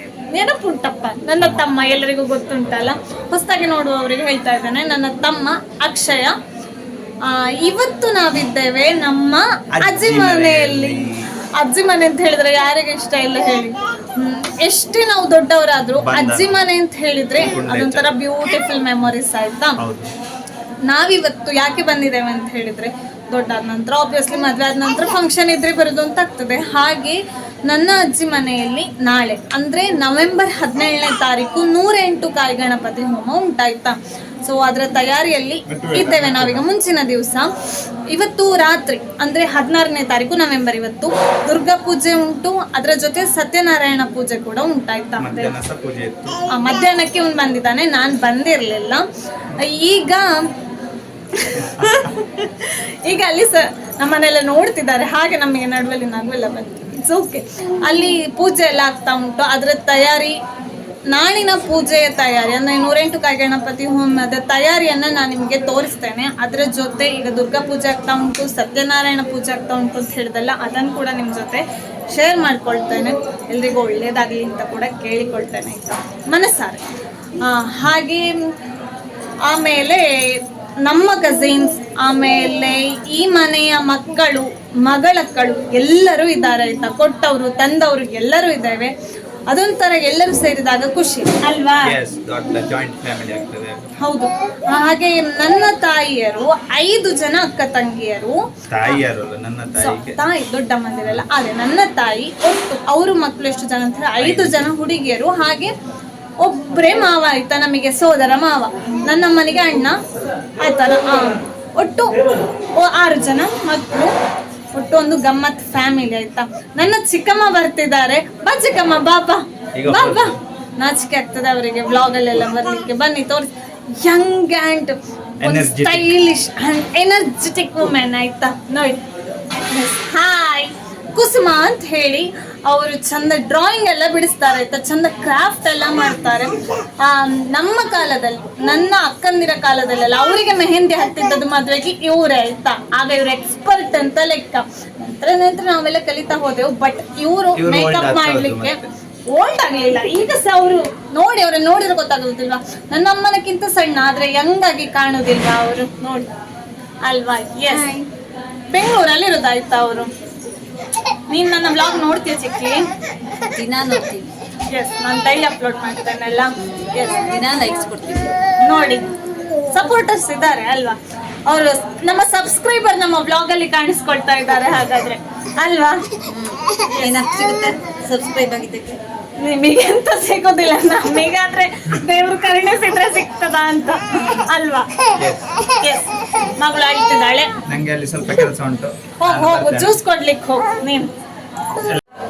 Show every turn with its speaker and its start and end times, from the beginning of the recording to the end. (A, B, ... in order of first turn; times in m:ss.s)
0:00.3-0:06.3 A
0:07.2-0:11.0 A
0:09.7-0:11.1 B
0:11.6-0:19.8 A
0:16.0-0:16.5 B
0:17.4-0:18.1 B
0:19.8-0:20.1 B
0:20.8-0:37.5 A
0:35.7-0:36.6 B
0:38.1-0:45.5 A
0:45.2-0:46.4 B
0:46.5-0:49.0 A
0:49.6-0:50.4 A
0:51.3-1:00.4 A
1:01.1-1:16.8 A
1:17.4-1:18.5 A
1:19.5-1:28.9 A
1:29.5-1:32.0 A
1:31.8-1:33.9 B
1:34.0-1:39.0 A
1:38.7-1:40.2 B
1:39.7-1:45.7 A
1:44.2-1:44.7 B
1:46.4-1:50.0 A
1:50.6-1:52.1 A
1:52.7-1:54.1 A
1:54.7-2:36.3 A
1:59.7-2:00.3 B
2:05.4-2:06.1 B
2:27.6-2:28.8 B
2:37.0-2:37.9 A
2:38.7-2:40.1 A
2:41.3-2:42.8 A
2:43.6-2:44.2 C
2:44.6-2:47.4 A
2:47.3-2:48.4 C
2:48.6-2:49.1 A
2:49.7-2:56.2 A
2:56.5-2:59.0 C
2:59.4-3:04.9 A
3:05.2-3:05.5 B
3:05.6-3:07.5 A
3:07.7-3:10.0 B
3:09.2-3:11.1 A